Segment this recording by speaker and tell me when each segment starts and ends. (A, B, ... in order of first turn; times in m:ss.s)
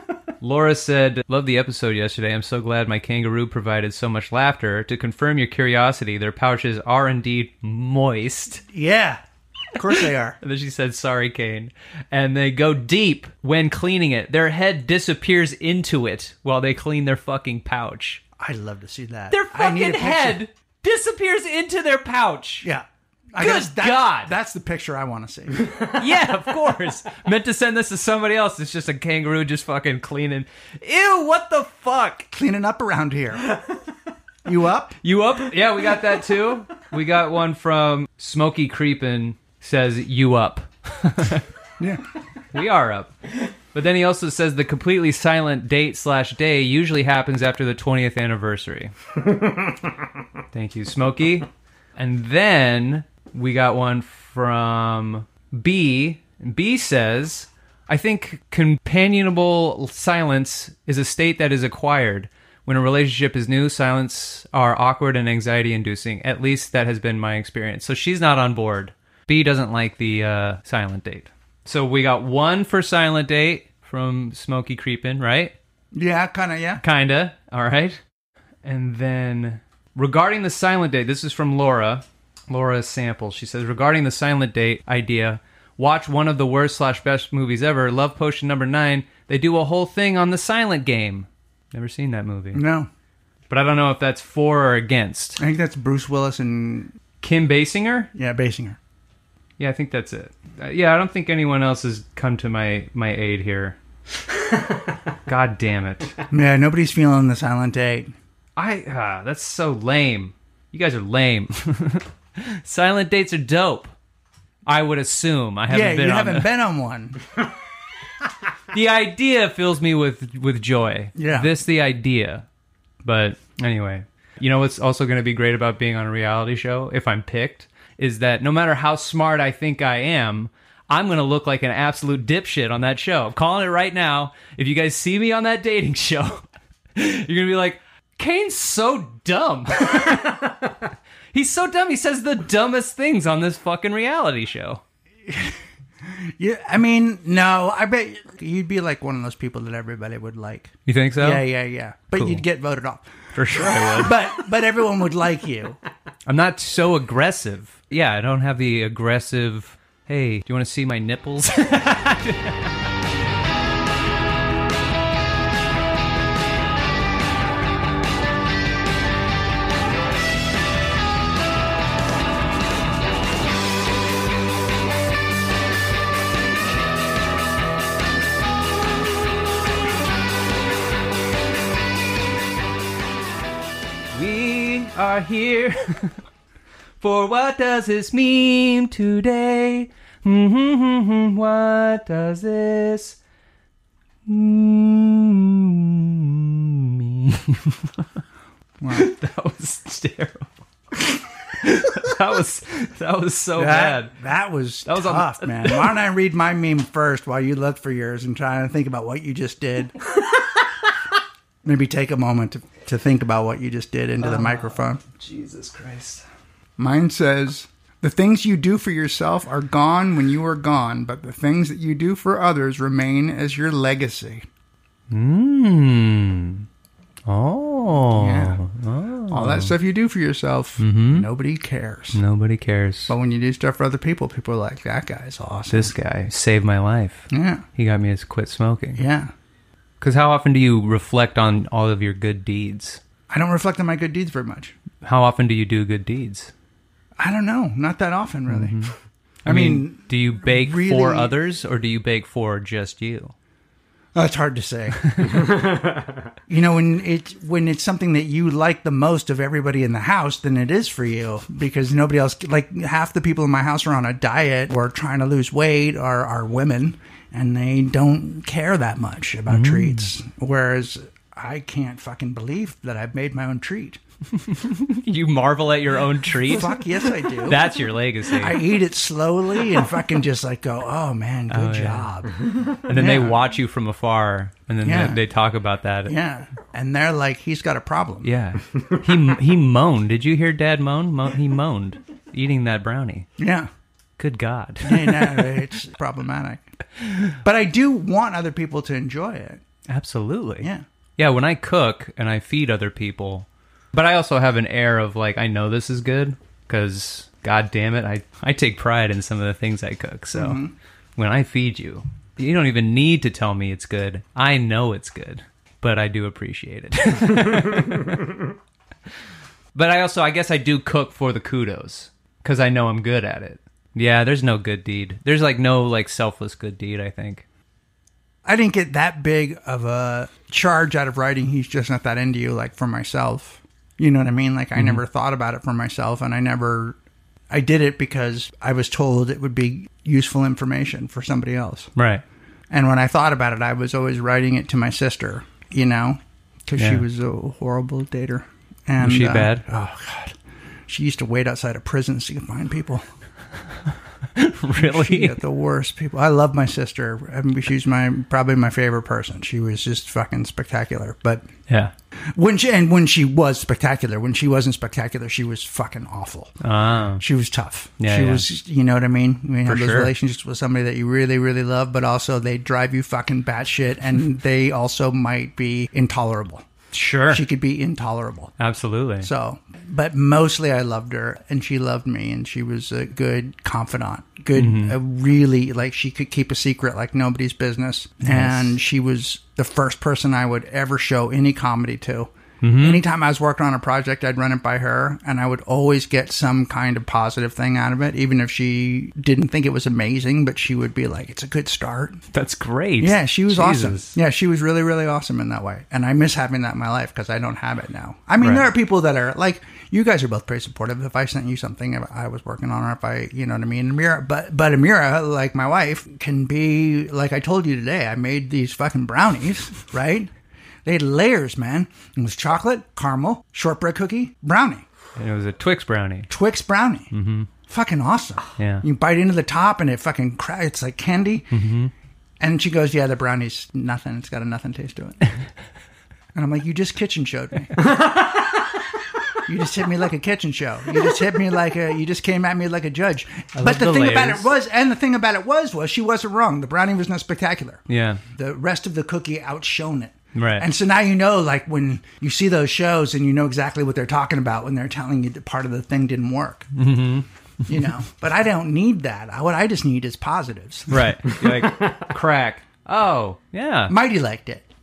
0:00.4-0:08.6 A
0:08.7-0:10.4 B
0:10.4-0:18.2 A
0:18.4-0:20.4 B
0:19.3-0:22.7 A
0:22.6-0:25.8 B
0:23.4-0:24.3 A
0:25.8-0:32.3 A
0:32.3-0:33.6 B
0:34.4-0:35.0 B
0:35.0-0:41.5 A
0:42.5-0:43.2 A
0:43.7-0:48.9 A
0:50.5-1:15.6 A
1:15.9-1:16.8 B
1:16.8-1:18.0 A
1:18.6-1:32.6 A
1:32.5-1:32.9 B
1:33.5-1:35.4 A
1:35.4-1:37.0 B
1:37.2-1:38.1 A
1:38.2-1:38.8 B
1:39.6-1:43.8 A
1:45.3-1:46.2 A
1:46.3-1:48.1 B
1:48.6-1:53.9 A
1:54.7-1:56.5 A
1:55.7-1:57.2 B
1:58.7-2:02.5 A
2:01.2-2:01.5 B
2:03.0-2:20.7 A
2:21.3-2:24.8 A
2:25.3-2:35.8 B
2:30.9-2:31.5 A
2:32.2-2:32.4 A
2:33.3-2:34.1 A
2:36.3-2:42.7 A
3:04.1-3:06.2 A
3:07.0-3:13.2 A
3:14.3-3:18.1 A
3:18.8-3:19.1 B
3:18.9-3:20.5 A
3:21.5-3:24.1 A
3:23.6-3:30.0 B
3:24.9-3:25.9 A
3:31.6-3:35.0 B
3:34.2-3:36.3 A
3:36.8-3:44.5 B
3:45.1-3:46.7 A
3:47.3-3:49.7 A
3:48.1-3:48.6 B
3:49.3-3:52.2 B
3:50.8-3:51.3 A
3:52.1-3:53.1 A
3:53.1-3:55.9 B
3:55.7-3:59.0 A
3:57.3-3:57.6 B
3:59.0-3:59.3 B
4:00.0-4:03.0 A
4:03.3-4:04.8 B
4:05.0-4:06.5 A
4:07.2-4:08.8 B
4:08.5-4:08.9 A
4:09.4-4:13.3 A
4:09.5-4:11.3 B
4:14.2-4:15.7 B
4:15.0-4:15.4 A
4:16.5-4:34.0 B
4:29.5-4:30.1 A
4:34.4-4:36.8 A
4:36.5-4:37.7 B
4:37.4-4:38.6 A
4:38.3-4:42.4 B
4:41.5-4:42.1 A
4:42.9-4:46.2 A
4:42.9-4:43.4 B
4:44.8-4:45.2 B
4:46.1-4:48.3 B
4:48.2-4:53.3 A
4:53.4-4:53.7 B
4:54.2-4:55.6 A
4:54.8-4:56.6 B
4:57.4-4:59.6 B
4:59.9-5:10.6 A
5:10.3-5:10.7 B
5:11.2-5:18.4 A
5:19.7-5:27.4 A
5:28.4-5:37.0 B
5:34.8-5:35.0 A
5:37.5-5:41.9 B
5:42.0-5:42.2 A
5:42.7-5:50.4 B
5:46.8-5:47.0 A
5:49.0-5:49.6 A
5:50.9-5:53.0 B
5:54.4-5:55.4 A
5:54.7-6:01.5 B
6:02.4-6:06.6 B
6:06.6-6:07.2 A
6:07.2-6:16.6 B
6:08.0-6:08.5 A
6:09.6-6:10.1 A
6:16.9-6:17.4 A
6:17.3-6:18.5 B
6:18.6-6:19.3 A
6:19.2-6:42.2 B
6:24.6-6:25.0 A
6:28.2-6:28.8 A
6:32.6-6:33.0 A
6:42.3-6:44.2 A
6:43.0-7:00.3 B
6:48.4-6:48.7 A
7:00.8-7:04.8 B
7:05.2-7:06.3 A
7:06.3-7:07.1 B
7:07.1-7:07.5 A
7:07.7-7:11.5 B
7:08.6-7:08.8 A
7:11.5-7:11.9 A
7:12.4-7:15.2 B
7:16.4-7:18.1 B
7:19.4-7:36.7 B
7:23.6-7:24.5 A
7:27.9-7:28.2 A
7:30.4-7:30.7 A
7:36.8-7:37.3 A
7:37.7-7:41.3 B
7:40.9-7:43.9 A
7:43.9-7:44.6 B